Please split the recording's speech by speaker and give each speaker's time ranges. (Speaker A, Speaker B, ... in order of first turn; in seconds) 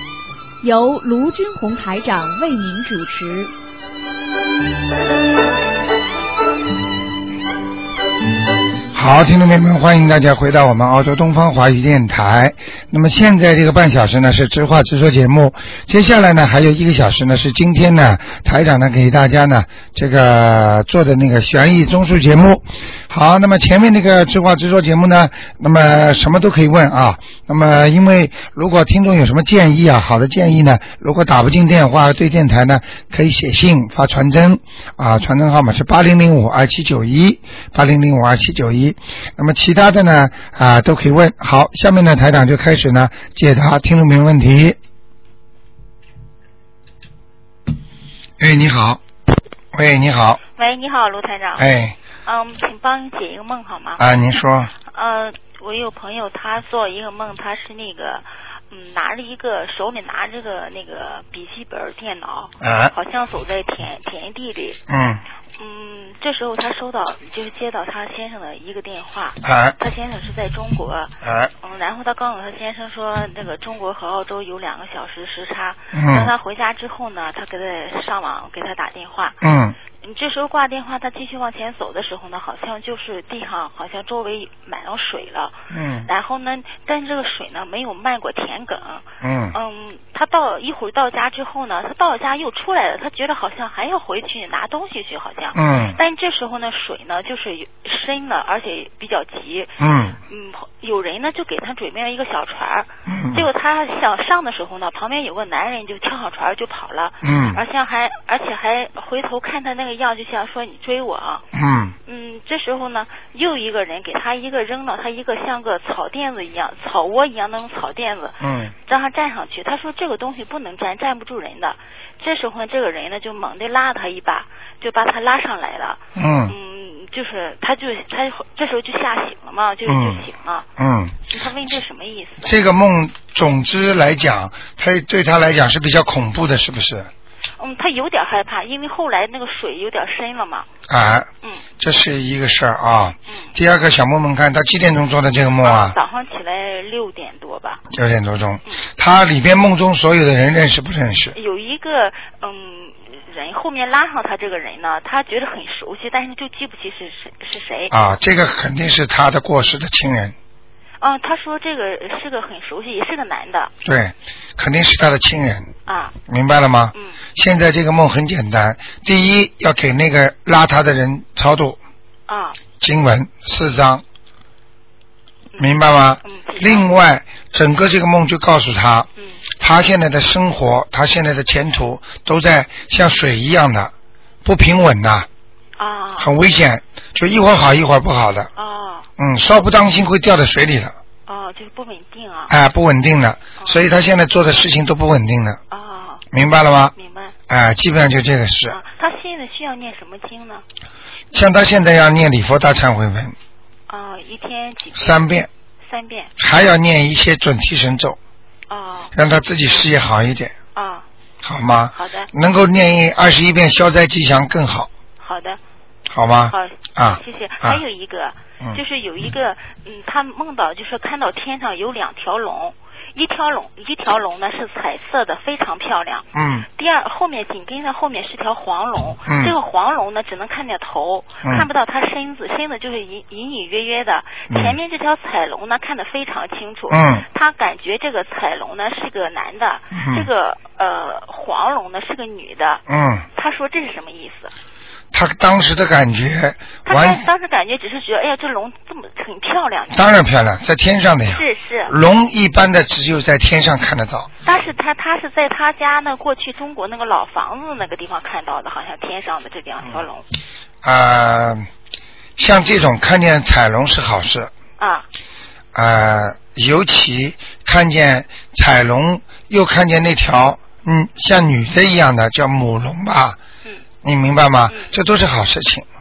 Speaker A: 0.6-3.5
Speaker B: 8.9-44.8, 48.4-49.0, 49.7-50.4, 51.6-52.0, 54.0-54.7, 62.6-62.9, 64.9-65.2, 69.4-69.8, 71.2-71.5, 75.9-76.3, 79.4-79.8, 85.7-86.1, 89.2-89.5, 95.5-96.0, 99.8-100.2, 103.1-103.5, 107.2-107.6, 111.5-112.0, 118.4-118.7, 126.2-126.5, 129.8-130.2, 130.8-131.2, 132.4-137.1, 140.9-141.3, 141.8-145.9, 147.9-151.3, 157.9-160.3, 163.8-165.7, 166.3-171.8, 172.8-174.0, 175.6-179.1, 179.6-183.9, 184.4-185.3, 186.2-188.5, 189.2-190.9, 192.5-195.6, 196.3-196.9, 197.5-198.8, 201.3-203.3, 204.9-205.5, 206.4-208.2, 209.1-210.5, 211.4-214.9, 216.1-217.8, 226.3-226.7, 229.2-229.5, 231.4-231.7, 234.5-234.8, 236.9-237.2, 239.9-240.3, 242.9-243.2, 245.1-247.2, 249.9-254.3, 260.8-261.7, 262.4-264.5, 265.7-273.4, 274.0-275.8
Speaker C: 50.5-51.6, 52.2-54.0, 54.9-64.8, 65.6-79.4, 80.0-99.7, 100.3-111.5, 112.0-130.7, 131.3-132.5, 137.6-140.7, 143.3-143.5, 145.6-147.8, 151.3-158.0, 161.0-163.7, 165.8-166.1, 172.3-172.6, 176.2-176.9, 185.8-186.3, 188.6-189.1, 191.2-192.5, 193.6-193.9, 195.7-196.2, 196.9-197.3, 198.7-200.6, 203.9-205.2, 205.8-206.3, 208.7-209.1, 210.7-211.0, 211.9-212.3, 215.2-215.6, 216.5-226.2, 226.8-242.8, 243.3-244.5, 246.8-250.1, 251.3-251.9, 254.4-260.2, 264.8-265.1